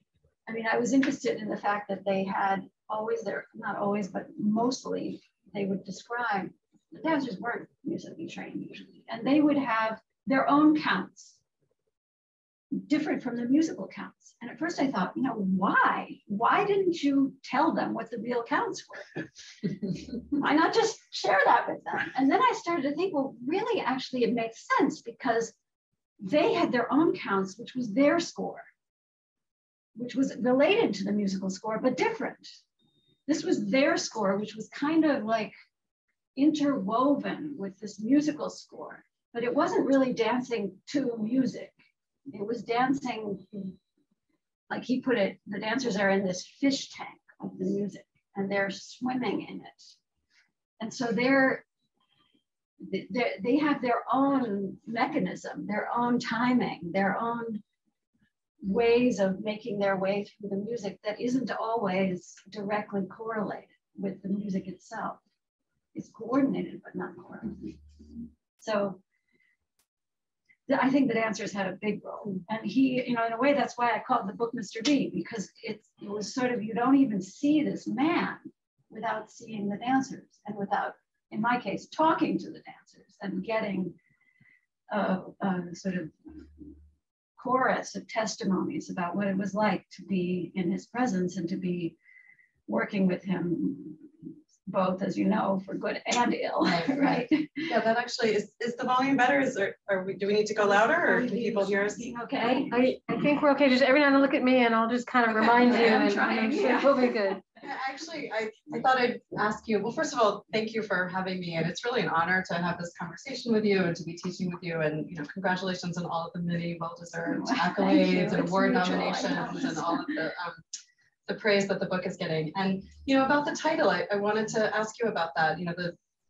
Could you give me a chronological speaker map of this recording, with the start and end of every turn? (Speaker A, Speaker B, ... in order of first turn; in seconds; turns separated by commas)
Speaker A: 0.5-11.4, Speaker A: 12.7-19.2, Speaker A: 20.3-25.6, Speaker A: 26.2-28.7, Speaker A: 29.9-32.6, Speaker A: 33.3-35.5, Speaker A: 36.4-41.7, Speaker A: 42.3-43.7, Speaker A: 44.7-49.9, Speaker A: 50.8-51.6, Speaker A: 52.8-57.6, Speaker A: 58.6-65.2, Speaker A: 65.9-67.8, Speaker A: 68.6-69.0, Speaker A: 70.7-84.0, Speaker A: 84.9-86.4, Speaker A: 87.4-92.0, Speaker A: 92.7-94.1, Speaker A: 94.7-97.7, Speaker B: 96.6-102.2, Speaker A: 100.6-102.8, Speaker C: 102.7-107.4, Speaker B: 105.4-106.0, Speaker A: 105.6-107.3, Speaker B: 107.6-120.6, Speaker A: 117.3-120.2, Speaker B: 121.3-126.0